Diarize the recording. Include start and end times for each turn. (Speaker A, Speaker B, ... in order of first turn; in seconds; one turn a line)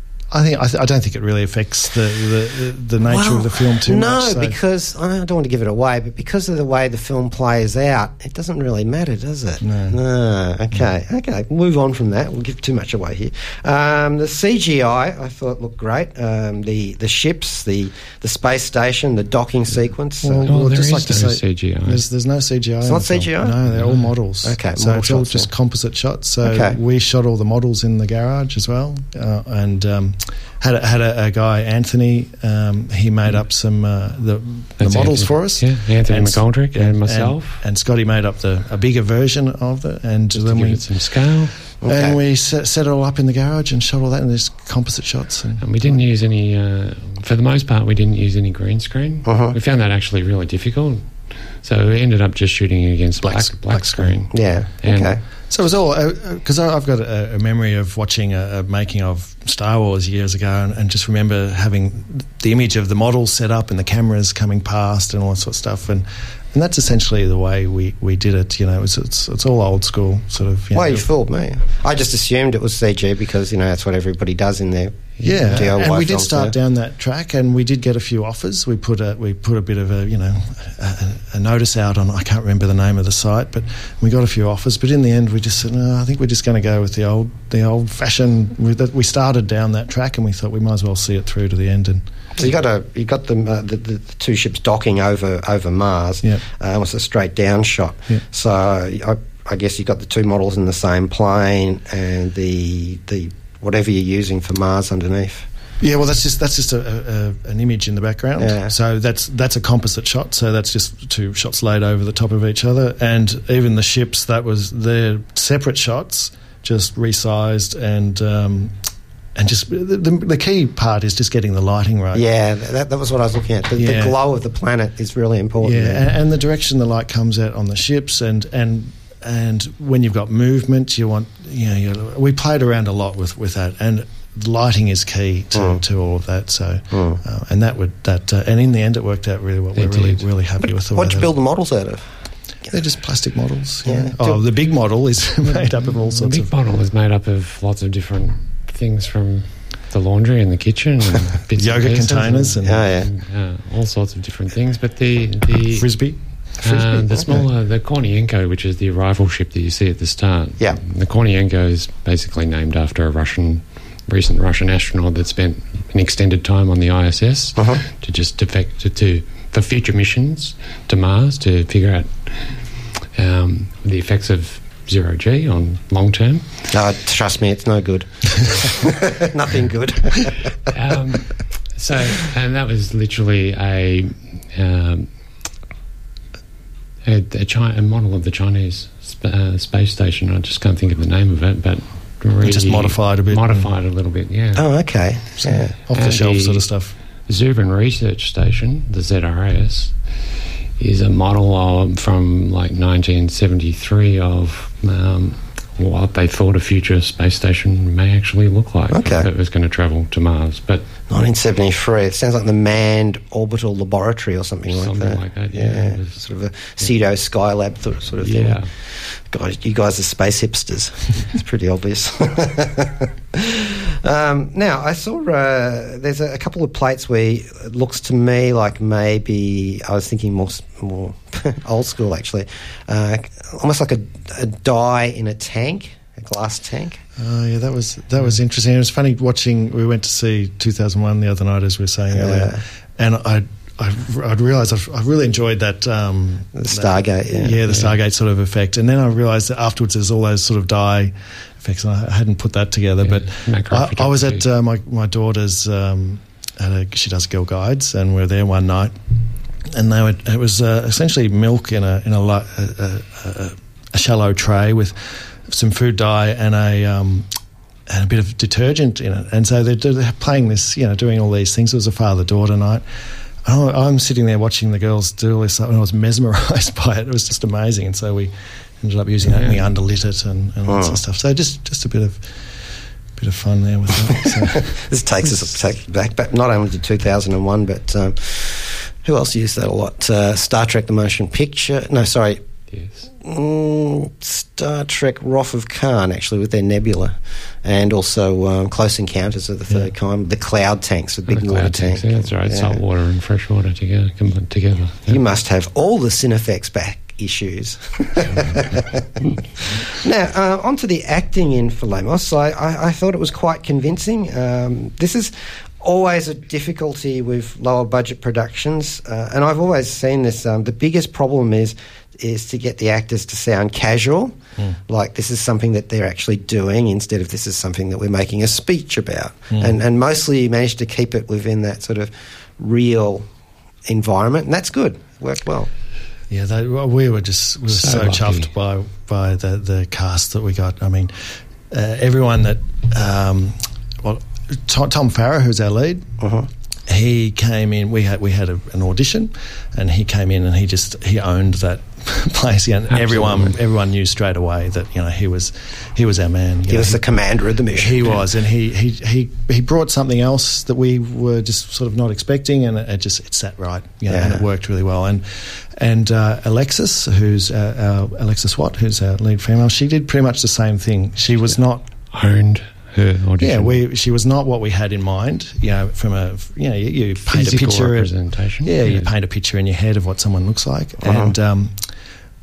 Speaker A: 0.3-4.6
Speaker B: 3.0-20.5
Speaker A: 9.6-10.0
Speaker A: 20.2-41.2
Speaker C: 20.4-22.0
Speaker B: 22.8-23.6
Speaker C: 23.8-24.0
Speaker B: 24.4-25.5
Speaker B: 26.4-26.8
Speaker C: 34.8-37.6
Speaker C: 40.3-41.5
Speaker B: 41.8-42.2
Speaker A: 41.8-46.0
Speaker C: 45.6-55.1
Speaker B: 49.2-49.5
Speaker A: 53.2-54.3
Speaker B: 54.3-55.2
Speaker A: 55.5-71.0
Speaker B: 70.7-76.5
Speaker C: 75.2-75.7
Speaker A: 75.2-92.0
Speaker B: 92.4-105.5
Speaker A: 105.8-118.8
Speaker B: 108.4-108.7
Speaker A: 119.3-122.2
Speaker B: 122.1-126.1
Speaker A: 123.8-124.2
Speaker A: 125.6-141.3
Speaker B: 135.5-135.8
Speaker B: 136.9-137.2
Speaker C: 139.8-140.2
Speaker B: 140.6-142.1
Speaker A: 142.7-146.5
Speaker B: 143.8-144.4
Speaker C: 146.1-156.0
Speaker A: 151.6-152.9
Speaker B: 152.6-153.1
Speaker A: 155.7-157.5
Speaker C: 156.6-172.6
Speaker B: 167.6-167.8
Speaker C: 173.1-176.6
Speaker B: 176.7-180.5
Speaker C: 180.7-185.1
Speaker C: 187.0-194.6
Speaker A: 192.4-193.7
Speaker B: 194.6-195.7
Speaker A: 195.4-196.9
Speaker C: 195.9-196.7
Speaker C: 197.3-199.9
Speaker C: 200.8-210.8
Speaker B: 208.9-209.3
Speaker B: 211.1-237.0
Speaker C: 214.7-216.2
Speaker C: 218.2-218.7
Speaker A: 237.2-258.9
Speaker B: 242.1-242.6
Speaker B: 246.5-247.6
Speaker C: 247.7-247.9
Speaker C: 253.0-254.5
Speaker A: 259.7-267.3
Speaker A: 267.9-272.8
Speaker A: 273.4-282.6
Speaker C: 279.2-279.7
Speaker B: 280.7-281.0
Speaker A: 283.1-284.7
Speaker B: 284.1-292.4
Speaker C: 292.7-293.0
Speaker B: 293.2-302.8
Speaker C: 301.3-305.2
Speaker B: 305.1-324.3
Speaker B: 324.9-333.3
Speaker B: 333.9-335.7
Speaker A: 336.3-341.1
Speaker C: 337.7-338.5
Speaker A: 341.7-346.1
Speaker B: 346.2-346.5
Speaker A: 346.9-357.0
Speaker C: 352.9-353.6
Speaker B: 356.7-358.1
Speaker A: 357.7-371.8
Speaker B: 364.1-364.4
Speaker C: 372.1-373.8
Speaker A: 373.4-378.1
Speaker C: 377.3-379.1
Speaker A: 378.6-381.9
Speaker B: 381.0-381.3